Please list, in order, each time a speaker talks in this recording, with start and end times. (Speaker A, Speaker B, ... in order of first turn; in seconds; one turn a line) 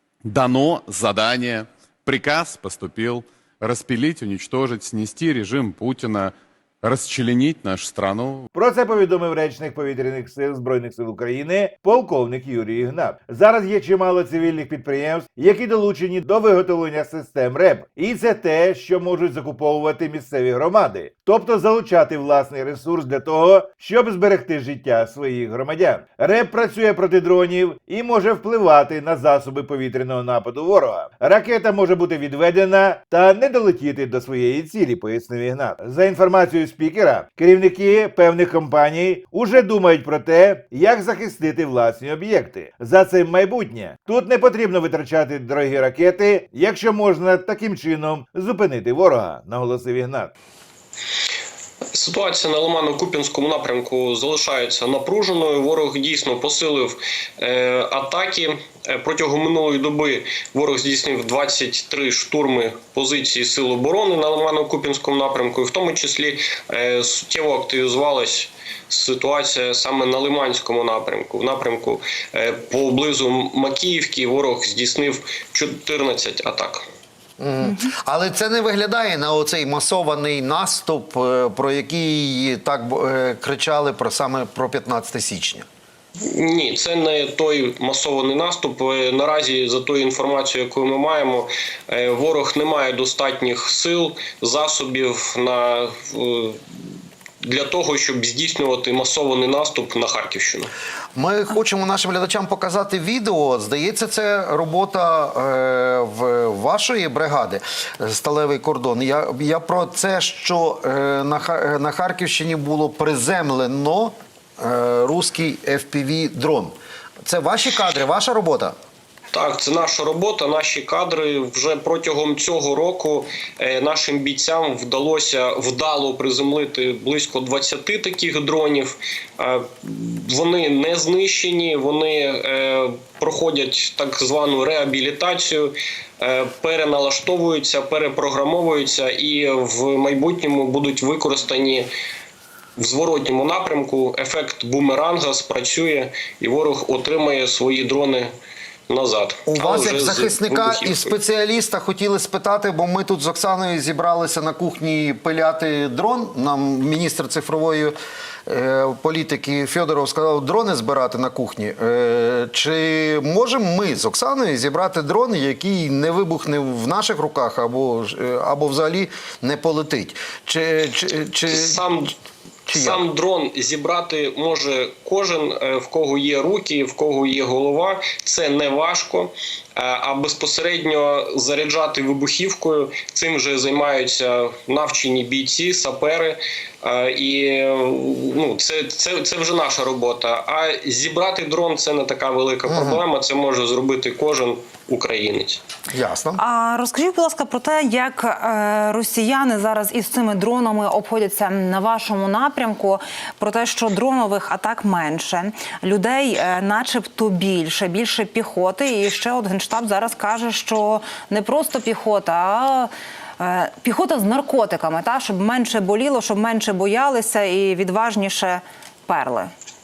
Speaker A: 0.2-8.5
Speaker B: 8.5-50.3
Speaker C: 51.9-76.9
Speaker D: 77.4-85.7
Speaker C: 86.2-96.9
Speaker C: 97.4-100.7
Speaker D: 101.2-116.8
Speaker D: 117.3-118.8
Speaker C: 119.3-141.9
Speaker C: 142.8-148.3
Speaker C: 148.9-151.2
Speaker D: 149.5-158.0
Speaker D: 158.5-171.8
Speaker C: 171.5-172.1
Speaker D: 172.7-173.0
Speaker C: 172.7-195.6
Speaker D: 192.7-193.0
Speaker D: 195.9-196.4
Speaker E: 196.4-219.5